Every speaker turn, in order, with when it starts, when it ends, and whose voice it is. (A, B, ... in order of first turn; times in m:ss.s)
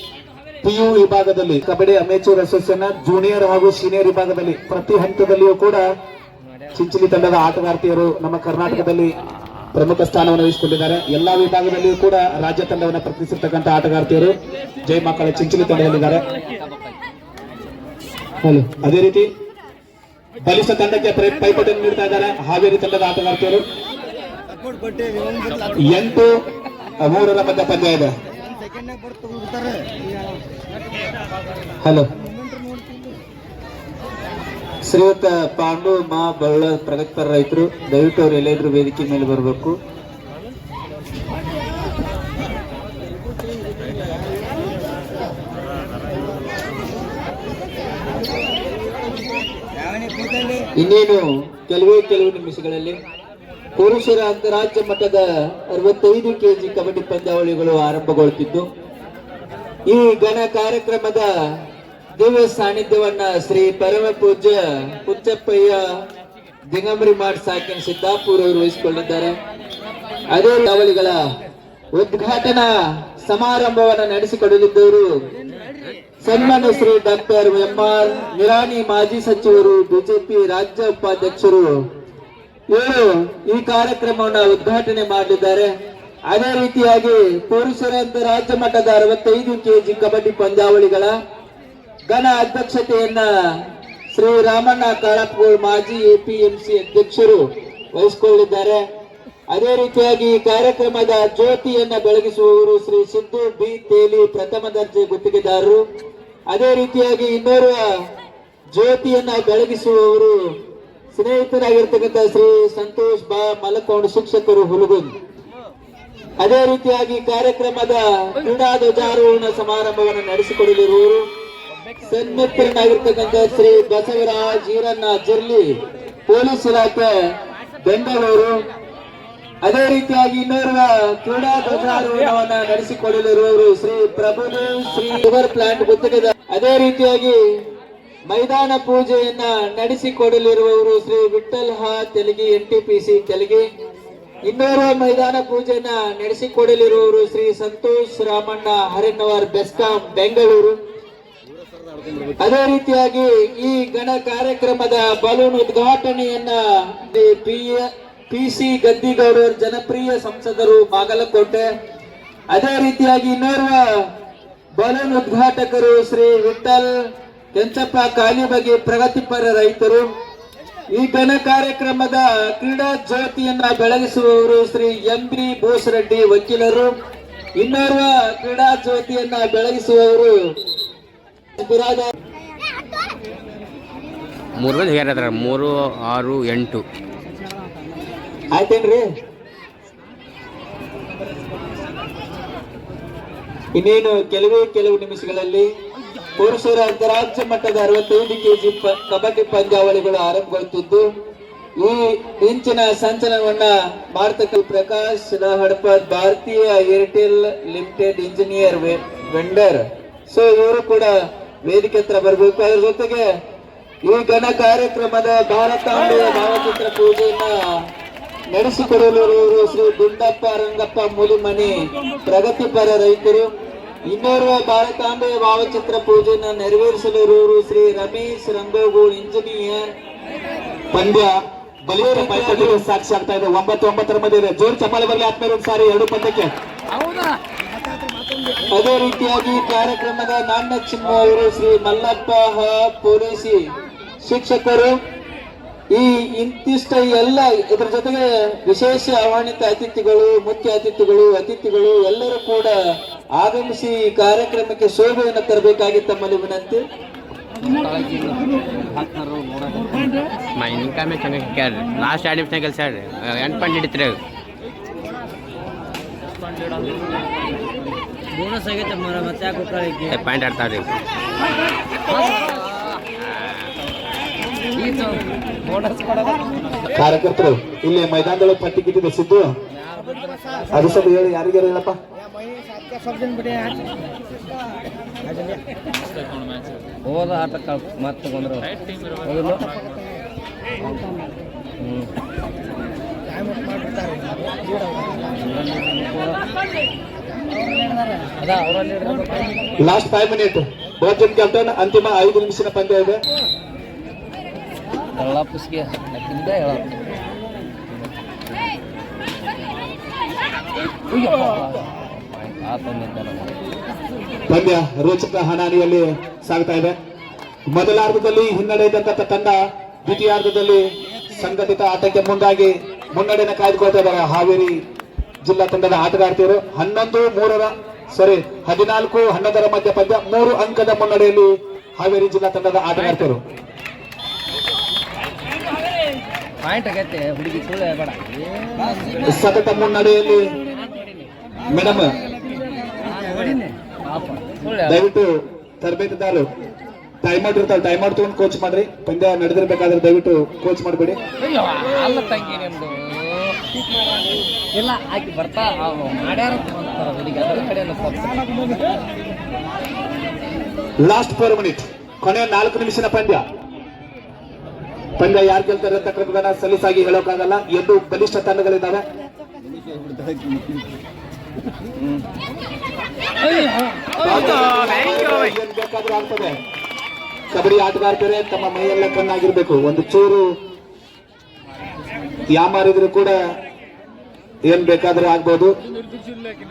0:00.6-0:05.8 A
0:06.7-0:09.1 A
0:09.7-0:14.3 A
0:14.8-0:16.3 A
0:15.6-0:17.0 B
0:18.6-0:19.3 A
0:20.4-0:23.6 A
0:25.7-0:26.3 A
0:27.0-0:28.1 A
0:31.8-0:32.1 A
0:34.8-0:39.8 C
0:50.8-0:53.0 C
0:53.8-0:58.7 C
0:59.9-1:01.3 C
1:02.2-1:05.8 C
1:06.7-1:09.4 C
1:10.3-1:11.2 C
1:11.9-1:15.1 C
1:16.2-1:21.7 C
1:22.7-1:25.7 C
1:26.3-1:31.1 C
1:32.1-1:33.3 C
1:34.2-1:37.4 C
1:37.9-1:38.8 C
1:39.5-1:45.8 C
1:46.5-1:47.9 C
1:48.7-1:50.3 C
1:51.2-1:55.1 C
1:56.4-2:01.2 C
2:02.0-2:05.7 C
2:06.3-2:07.1 C
2:07.8-2:08.5 C
2:09.6-2:17.4 C
2:18.3-2:23.7 C
2:24.5-2:30.8 C
2:32.4-2:41.7 C
2:42.5-2:43.8 C
2:44.8-2:46.9 C
2:47.5-2:50.0 C
2:50.9-2:56.9 C
2:57.6-3:00.3 C
3:01.6-3:02.1 C
3:04.6-3:06.8 D
3:08.5-3:09.0 C
3:13.8-3:15.7 C
3:16.4-3:21.0 C
3:21.8-3:31.1 C
3:31.6-3:33.2 C
3:34.0-3:37.5 C
3:38.5-3:43.5 C
3:44.1-3:49.9 C
3:50.9-3:51.3 A
3:51.9-3:56.5 A
3:51.9-3:52.8 C
3:56.9-3:57.4 B
3:58.7-4:03.6 C
4:04.2-4:04.9 C
4:05.9-4:12.7 C
4:13.4-4:16.8 C
4:17.6-4:20.1 B
4:20.5-4:24.2 D
4:28.3-4:30.1 B
4:30.1-4:30.9 D
4:32.1-4:32.7 B
4:33.2-4:33.7 D
4:34.7-4:36.6 B
4:36.9-4:39.5 A
4:39.7-4:41.2 B
4:40.7-4:42.0 A
4:43.4-4:43.9 B
4:47.0-4:49.8 B
4:51.8-4:52.1 B
4:55.4-4:56.4 B
4:58.4-4:59.6 B
4:59.8-5:03.2 A
5:05.2-5:07.0 B
5:11.1-5:13.6 B
5:14.5-5:17.0 A
5:17.7-5:24.8 A
5:25.4-5:33.4 A
5:36.6-5:38.8 B
5:39.2-5:40.4 A
5:41.7-5:42.1 A
5:42.9-5:45.0 B
5:44.8-5:45.3 A
5:45.8-5:46.5 A
5:47.2-5:51.2 A
5:51.4-5:53.8 B
5:54.6-5:58.8 B
6:01.0-6:03.4 A
6:05.2-6:09.0 A
6:13.5-6:14.3 B
6:14.2-6:16.5 A
6:17.5-6:20.4 A
6:22.5-6:23.4 A
6:24.7-6:25.7 A